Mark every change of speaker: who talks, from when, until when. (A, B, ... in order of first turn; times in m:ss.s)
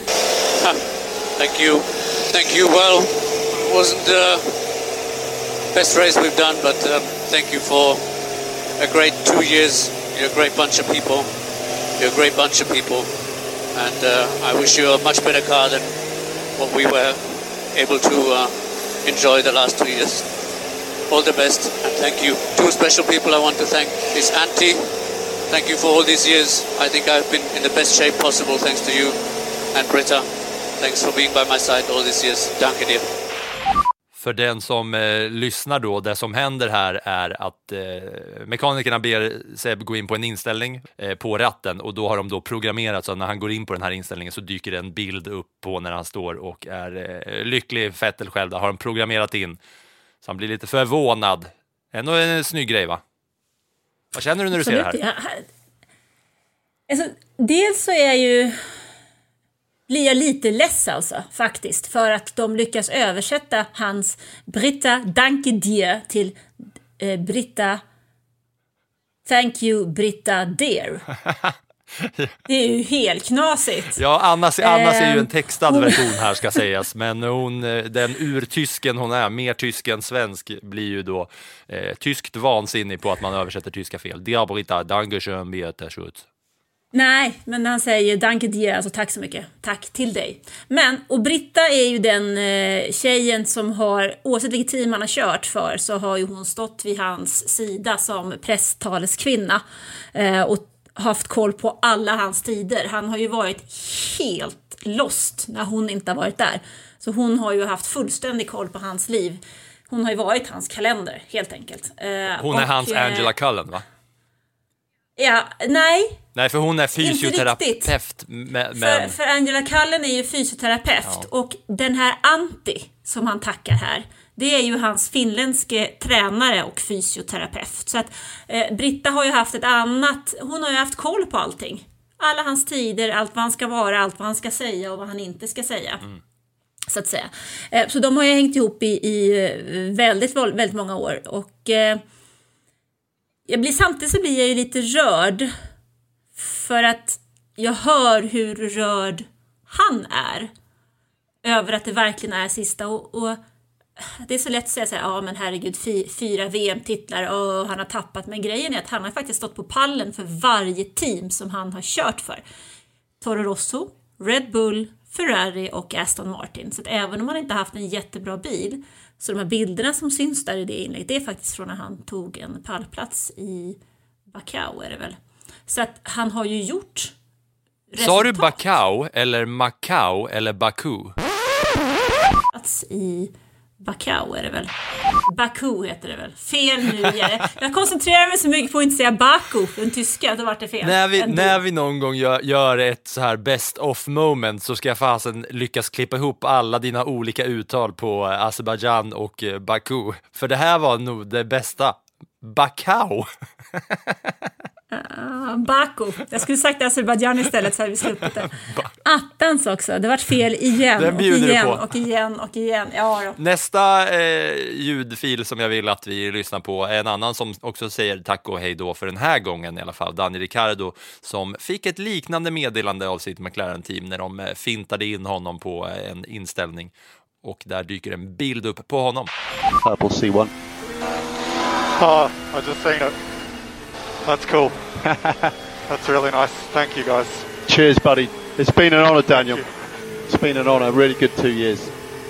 0:00.6-0:04.6 A
0:05.7-0:08.0 A
0:08.8-0:11.3 A
0:12.0-0:13.1 A
0:13.7-0:15.9 A
0:16.6-0:20.3 A
0:21.1-0:24.9 A
0:25.5-0:29.2 A
0:29.7-0:30.3 A
0:30.8-0:33.1 A
0:34.2-0:49.6 B
0:50.2-0:53.0 B
0:54.1-0:55.0 B
0:54.6-0:55.4 C
0:56.9-0:58.6 C
0:59.9-1:06.4 C
1:07.0-1:07.8 C
1:09.2-1:11.0 C
1:12.5-1:14.0 C
1:14.0-1:26.2 B
1:14.6-1:16.2 C
1:26.9-1:39.6 C
1:40.1-1:53.3 C
1:52.4-1:53.8 B
1:55.2-1:56.2 C
1:56.4-1:59.2 B
1:57.0-1:57.9 C
1:58.8-2:16.0 C
2:16.9-2:22.0 C
2:23.5-2:25.5 C
2:26.4-2:30.5 C
2:31.4-2:33.4 C
2:34.0-2:42.4 C
2:43.2-2:53.8 C
2:54.3-2:57.1 C
2:57.9-2:58.6 C
2:58.0-3:01.2 B
3:02.5-3:04.7 C
3:05.3-3:11.6 C
3:10.8-3:23.3 B
3:24.9-3:33.4 C
3:31.0-3:31.8 B
3:33.4-3:46.9 B
3:47.4-3:49.3 B
3:49.8-3:50.5 D
3:52.0-3:53.2 E
3:54.2-3:54.8 E
3:55.1-3:55.3 D
3:55.9-3:57.5 E
3:57.7-3:59.6 D
3:59.3-3:59.6 E
4:00.3-4:01.9 D